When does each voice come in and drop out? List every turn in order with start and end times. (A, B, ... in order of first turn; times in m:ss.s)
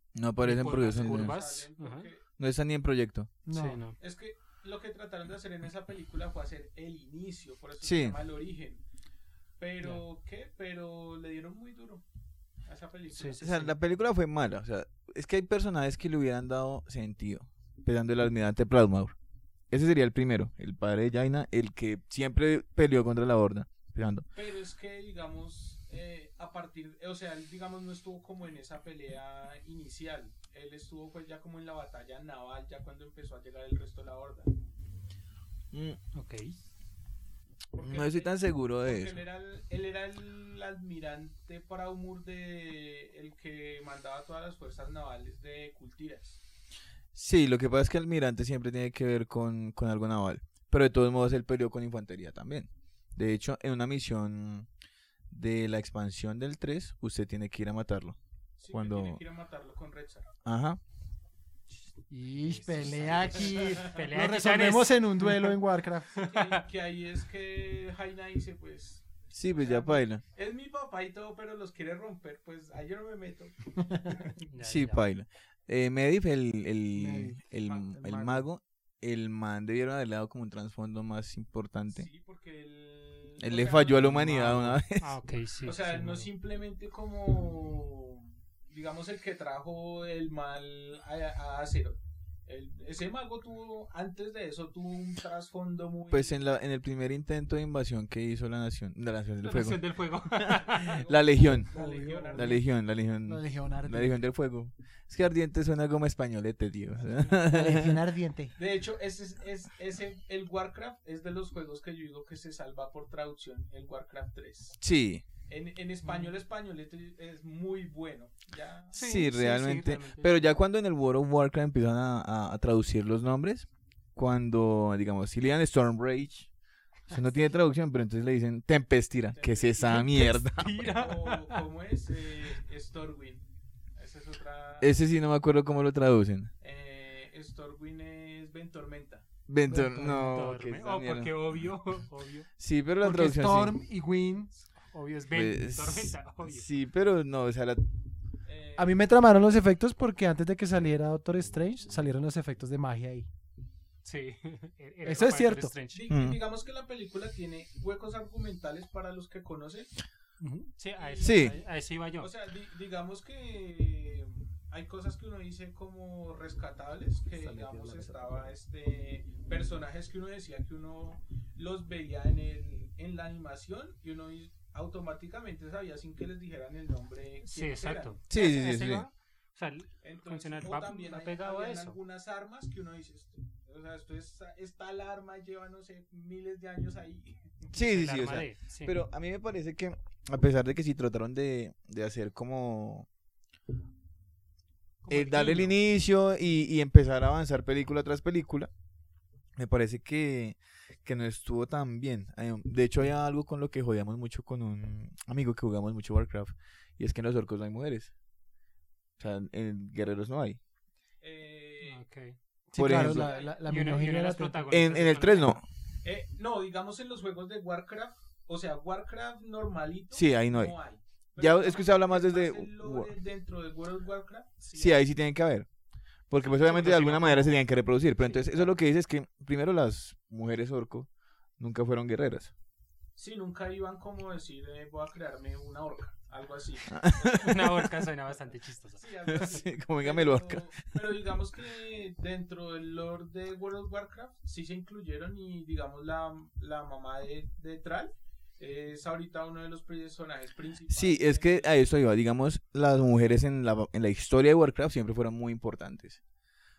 0:00.1-0:01.4 A
0:00.4-0:02.1 B
0:00.6-0:02.2 C
0:02.4-0:03.3 A
0:03.4-0:03.8 D
0:03.5-0:04.0 B
0:04.0-0:08.8 C
0:07.8-0:08.2 A
0:09.6-0:12.0 C
0:12.6-0:13.7 C
0:13.1-0:13.7 B
0:13.4-0:19.1 A
0:19.7-0:24.3 A
0:24.3-0:34.5 C
0:35.7-0:36.0 A
0:36.1-0:36.6 B
0:37.7-0:46.4 C
0:37.8-0:39.2 A
0:47.1-0:54.7 A
0:55.3-0:58.2 A
0:58.6-1:00.3 C
0:58.7-0:59.2 A
1:00.4-1:00.8 A
1:02.1-1:06.2 D
1:02.2-1:05.6 B
1:03.1-1:04.0 C
1:06.1-1:06.6 B
1:06.2-1:14.3 C
1:09.3-1:10.2 A
1:14.4-1:15.1 B
1:14.6-1:22.1 A
1:16.9-1:18.4 D
1:21.9-1:24.8 C
1:23.4-1:25.1 A
1:24.4-1:26.3 B
1:25.6-1:36.4 C
1:36.1-1:39.8 A
1:39.4-1:41.0 B
1:40.3-1:41.7 A
1:40.5-1:42.6 C
1:41.7-1:42.6 D
1:42.3-1:48.1 A
1:43.2-1:44.2 D
1:47.4-1:48.6 D
1:48.6-1:54.8 C
1:54.8-1:55.2 A
1:55.5-1:59.0 C
1:58.9-2:00.4 B
1:58.9-2:06.5 A
2:07.1-2:10.8 A
2:09.3-2:10.1 C
2:09.8-2:11.6 B
2:10.7-2:15.0 C
2:14.8-2:16.5 A
2:16.6-2:19.3 C
2:19.5-2:21.3 A
2:19.7-2:20.3 D
2:19.9-2:22.5 B
2:22.6-2:23.8 A
2:23.0-2:24.5 D
2:24.8-2:26.7 B
2:25.3-2:27.8 A
2:28.4-2:29.2 C
2:28.8-2:33.3 D
2:34.0-2:36.1 B
2:35.0-2:35.7 D
2:35.9-2:39.9 C
2:36.1-2:36.4 A
2:40.4-2:42.3 B
2:41.0-2:41.6 C
2:41.2-2:41.6 A
2:42.2-2:58.2 C
2:47.3-2:48.5 D
2:57.4-3:02.0 B
2:58.3-2:59.0 A
3:00.0-3:07.8 C
3:07.7-3:13.1 A
3:07.8-3:09.0 B
3:15.0-3:15.8 B
3:15.1-3:18.7 A
3:19.6-3:28.1 A
3:29.2-3:30.6 A
3:31.2-3:32.0 C
3:31.8-3:32.4 B
3:32.7-3:34.8 D
3:32.7-3:33.3 A
3:32.9-3:33.6 C
3:33.6-3:35.6 B
3:34.7-3:35.6 A
3:36.0-3:45.0 C
3:40.1-3:40.8 A
3:41.4-3:43.1 A
3:44.7-3:45.7 A
3:46.3-3:52.5 A
3:46.6-3:47.6 C
3:53.2-3:57.6 C
3:56.9-3:57.7 A
3:57.4-3:59.5 B
3:58.9-4:11.8 C
3:59.3-4:00.7 A
4:10.9-4:16.2 A